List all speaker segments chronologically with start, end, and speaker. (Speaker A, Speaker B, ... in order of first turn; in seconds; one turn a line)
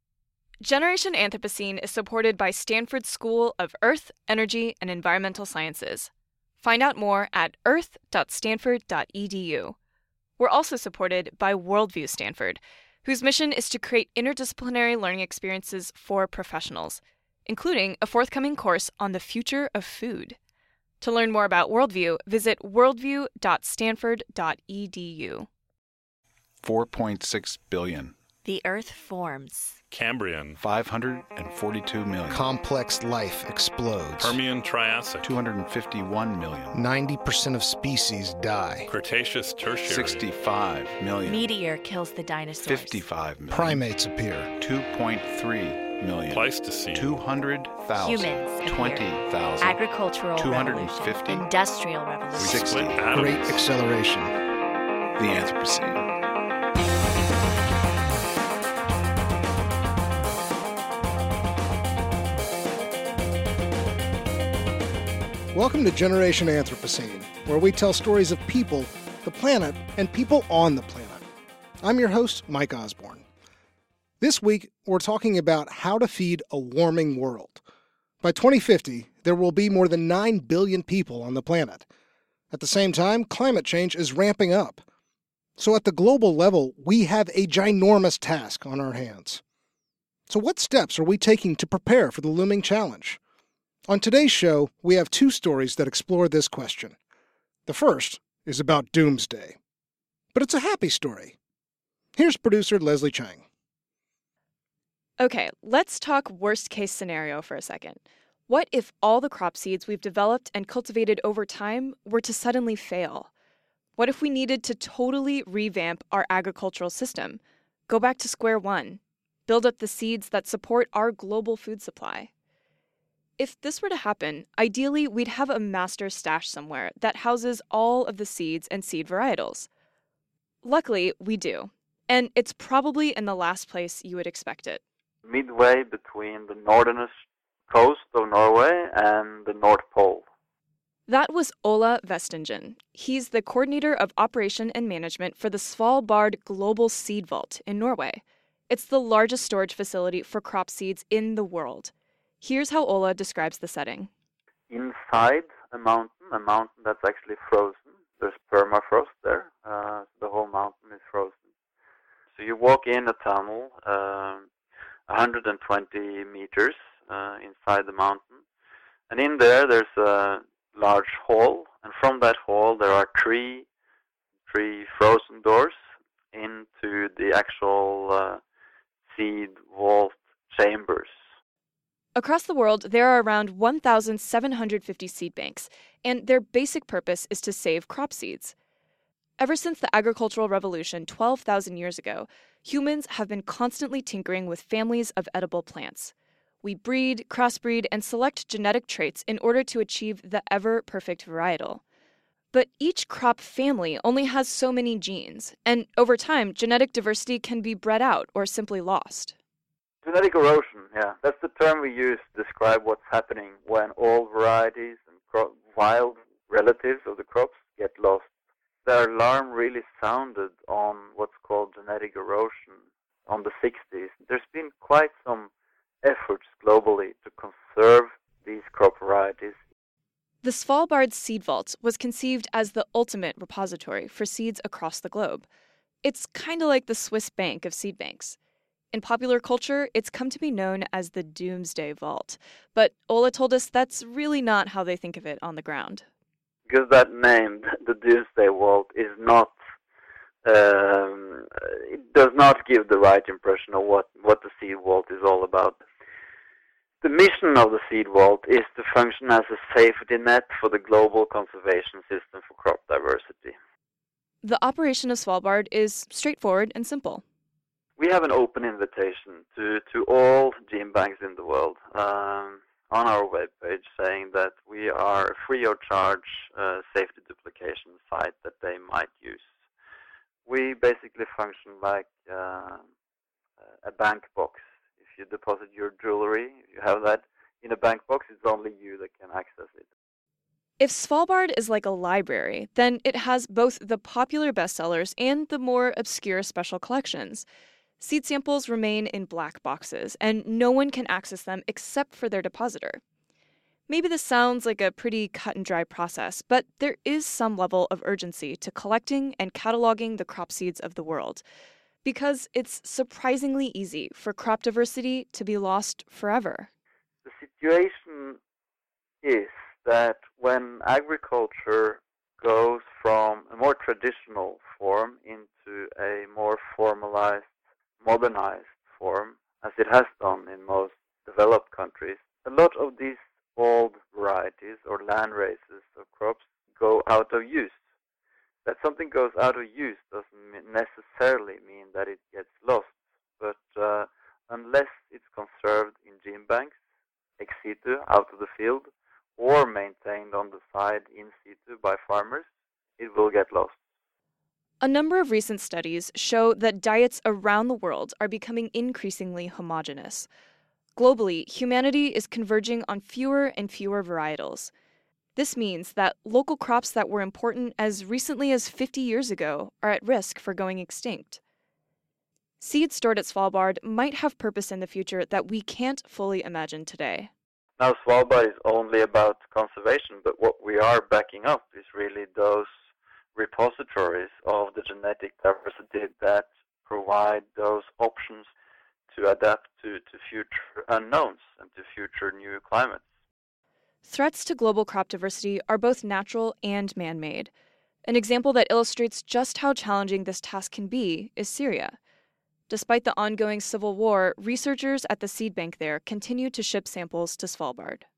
Speaker A: 0.6-6.1
Speaker A: 6.6-9.8
Speaker A: 10.4-20.4
Speaker A: 21.0-25.5
Speaker B: 26.6-28.1
Speaker C: 28.4-29.8
Speaker D: 29.9-30.6
Speaker B: 30.6-32.5
Speaker E: 32.3-34.4
Speaker D: 34.2-35.3
Speaker B: 35.2-36.8
Speaker E: 36.7-38.9
Speaker D: 38.9-40.3
Speaker B: 39.8-41.5
Speaker C: 41.2-43.0
Speaker B: 42.6-43.9
Speaker E: 43.5-44.5
Speaker B: 44.5-51.5
Speaker D: 46.3-47.2
Speaker C: 48.0-52.8
Speaker B: 52.3-53.1
Speaker D: 52.6-53.7
Speaker E: 53.1-54.3
Speaker B: 55.2-56.1
Speaker E: 65.5-71.2
Speaker E: 71.8-73.2
Speaker E: 74.2-77.6
Speaker E: 78.2-81.9
Speaker E: 82.5-84.8
Speaker E: 85.6-89.4
Speaker E: 90.3-93.2
Speaker E: 93.9-97.0
Speaker E: 97.7-99.6
Speaker E: 100.3-101.3
Speaker E: 102.2-103.4
Speaker A: 105.2-113.3
Speaker A: 114.0-122.3
Speaker A: 123.4-129.7
Speaker A: 130.6-134.8
Speaker F: 135.2-137.1
Speaker F: 137.7-140.2
Speaker A: 141.1-154.1
Speaker F: 154.7-161.3
Speaker F: 162.3-164.5
Speaker F: 165.1-168.4
Speaker F: 169.1-173.6
Speaker F: 174.5-175.8
Speaker F: 176.3-178.4
Speaker F: 179.1-181.1
Speaker A: 182.2-188.5
Speaker A: 189.4-196.1
Speaker A: 196.6-201.8
Speaker A: 202.5-209.3
Speaker F: 210.0-218.2
Speaker F: 218.8-225.5
Speaker F: 226.0-229.5
Speaker A: 230.4-235.4
Speaker A: 236.0-238.3
Speaker A: 238.9-246.0
Speaker F: 246.7-249.5
Speaker F: 250.4-255.8
Speaker F: 257.0-263.5
Speaker A: 264.4-267.2
Speaker F: 268.0-279.4
Speaker F: 280.4-282.8
Speaker F: 283.8-289.8
Speaker A: 290.8-297.4
Speaker A: 298.0-303.0
Speaker A: 303.9-311.4
Speaker A: 312.0-316.7
Speaker F: 317.2-318.4
Speaker F: 319.2-327.4
Speaker F: 328.0-337.7
Speaker F: 338.6-346.7
Speaker F: 347.4-352.4
Speaker F: 353.0-353.7
Speaker A: 354.8-360.3
Speaker A: 360.9-364.7
Speaker A: 365.4-371.4
Speaker A: 372.6-377.3
Speaker F: 377.8-382.7
Speaker F: 383.4-388.5
Speaker F: 389.1-393.0
Speaker A: 394.0-397.5
Speaker A: 398.0-401.9
Speaker A: 402.7-408.0